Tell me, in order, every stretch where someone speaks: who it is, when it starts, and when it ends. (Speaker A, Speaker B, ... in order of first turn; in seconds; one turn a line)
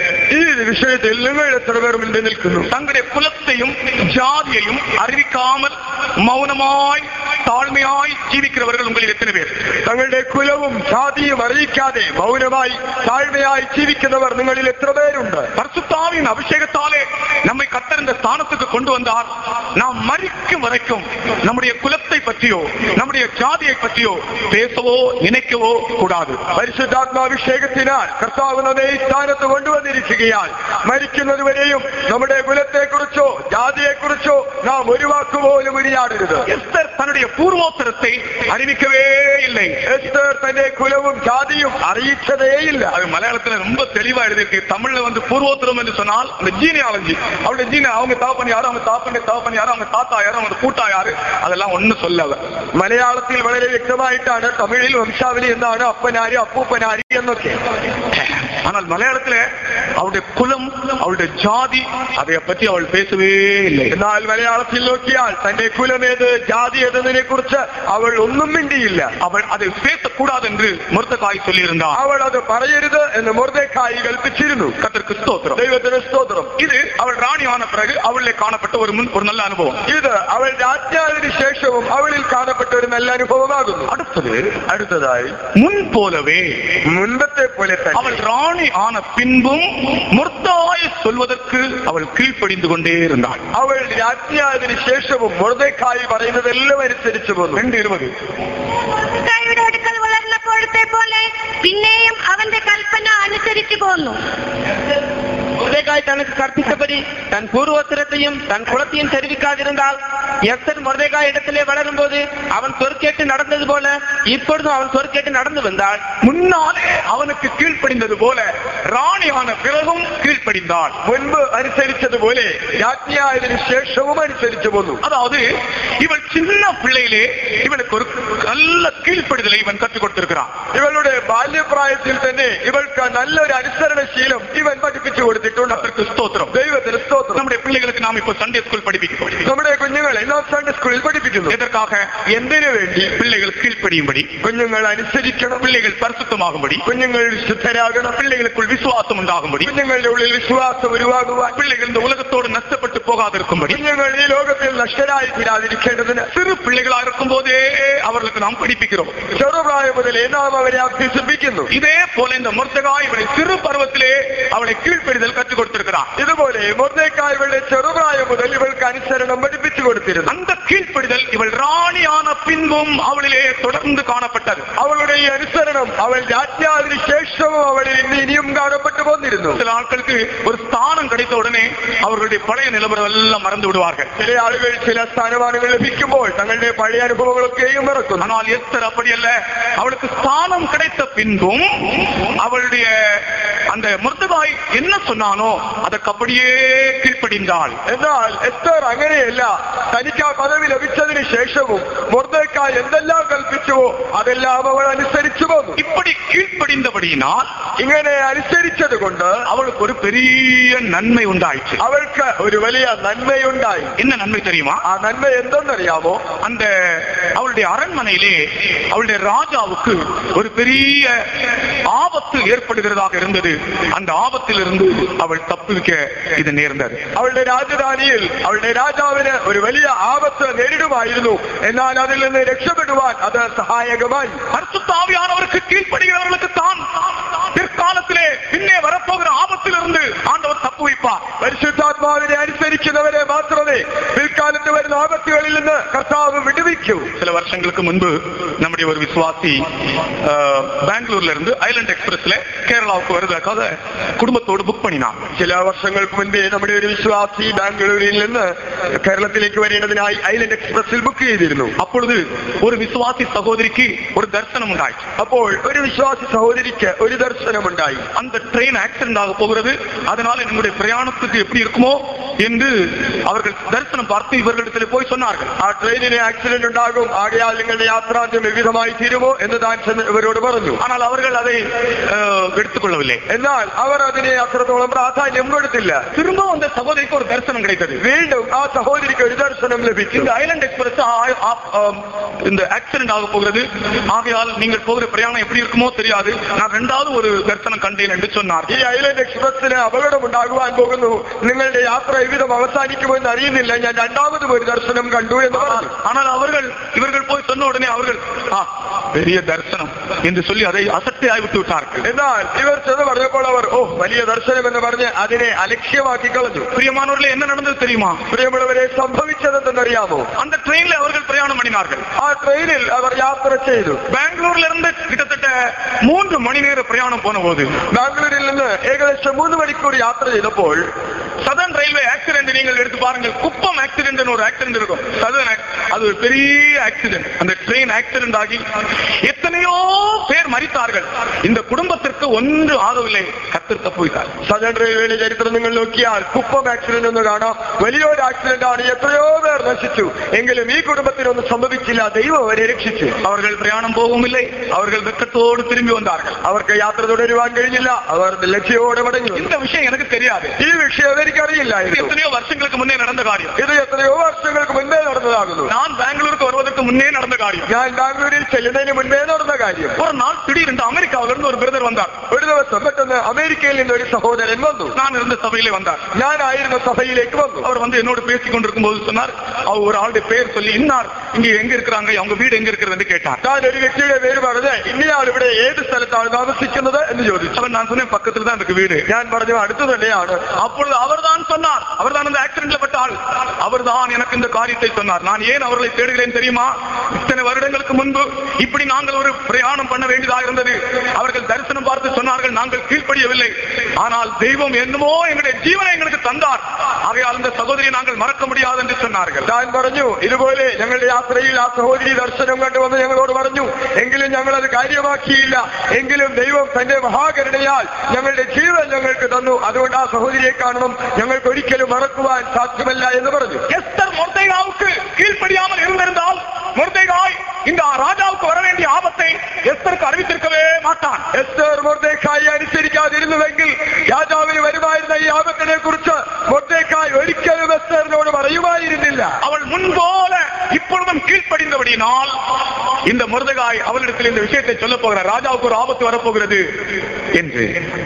Speaker A: 0.3-2.7
Speaker B: 2.7-9.6
Speaker A: 9.8-15.5
Speaker B: 15.6-26.4
Speaker A: 26.6-36.5
Speaker B: 36.5-39.8
Speaker A: 39.9-42.9
Speaker B: 42.9-52.4
Speaker A: 52.8-57.6
Speaker B: 58.1-59.4
Speaker B: 60.0-63.9
Speaker A: 63.9-69.1
Speaker B: 69.2-72.0
Speaker A: 71.9-74.7
Speaker B: 74.8-75.6
Speaker A: 75.5-76.5
Speaker B: 76.6-79.8
Speaker A: 79.9-83.9
Speaker B: 83.9-84.6
Speaker A: 84.7-85.3
Speaker B: 85.5-86.7
Speaker A: 86.9-88.2
Speaker B: 87.9-93.4
Speaker A: 93.5-97.6
Speaker B: 97.5-98.1
Speaker C: 99.0-104.2
Speaker D: 105.6-116.0
Speaker B: 116.2-121.0
Speaker A: 121.0-125.0
Speaker B: 125.0-125.4
Speaker B: 126.0-130.5
Speaker A: 130.7-135.9
Speaker B: 135.7-136.5
Speaker A: 136.5-137.4
Speaker B: 137.3-139.4
Speaker A: 139.4-141.6
Speaker B: 141.5-142.2
Speaker A: 142.2-143.1
Speaker B: 143.2-144.3
Speaker A: 144.4-145.6
Speaker B: 145.6-146.8
Speaker A: 146.8-148.2
Speaker B: 148.2-149.7
Speaker A: 149.6-151.6
Speaker B: 151.5-153.8
Speaker A: 153.7-156.3
Speaker B: 156.3-159.2
Speaker A: 159.3-161.7
Speaker B: 161.7-166.1
Speaker A: 166.2-170.3
Speaker B: 170.3-174.7
Speaker A: 174.8-179.6
Speaker B: 179.5-184.1
Speaker A: 184.2-188.3
Speaker B: 188.2-191.7
Speaker B: 192.3-197.8
Speaker A: 197.9-205.8
Speaker B: 205.8-207.5
Speaker A: 207.8-209.4
Speaker B: 209.5-211.8
Speaker A: 211.8-213.9
Speaker B: 214.0-214.8
Speaker A: 214.8-216.2
Speaker B: 216.4-227.0
Speaker A: 227.1-234.4
Speaker B: 234.5-241.2
Speaker A: 241.4-247.1
Speaker B: 247.2-249.7
Speaker B: 250.2-255.2
Speaker A: 255.3-261.7
Speaker B: 261.8-265.0
Speaker A: 265.2-268.0
Speaker B: 268.1-275.5
Speaker A: 275.6-280.8
Speaker B: 280.8-283.2
Speaker A: 283.3-286.0
Speaker B: 286.1-288.0
Speaker A: 288.0-290.3
Speaker B: 290.1-298.7
Speaker A: 298.7-305.9
Speaker B: 305.5-312.1
Speaker A: 312.0-316.7
Speaker B: 316.7-318.2
Speaker A: 318.3-320.3
Speaker B: 320.4-322.1
Speaker A: 322.2-324.0
Speaker B: 324.1-327.7
Speaker A: 327.9-330.8
Speaker B: 331.4-338.6
Speaker B: 339.2-344.3
Speaker A: 344.4-353.1
Speaker B: 353.2-356.4
Speaker A: 356.4-359.5
Speaker B: 359.3-360.6
Speaker A: 360.6-362.1
Speaker B: 361.9-363.5
Speaker A: 363.6-365.7
Speaker B: 365.7-367.7
Speaker A: 367.7-370.0
Speaker B: 370.0-372.1
Speaker A: 372.3-374.9
Speaker B: 374.9-376.0
Speaker A: 376.1-377.7
Speaker B: 377.6-383.4
Speaker A: 383.4-387.6
Speaker B: 387.5-389.0
Speaker A: 389.1-390.4
Speaker B: 390.5-409.5
Speaker A: 409.4-423.6
Speaker B: 423.7-431.2
Speaker A: 431.3-439.4
Speaker B: 439.4-442.3
Speaker B: 443.1-446.6
Speaker B: 447.3-447.8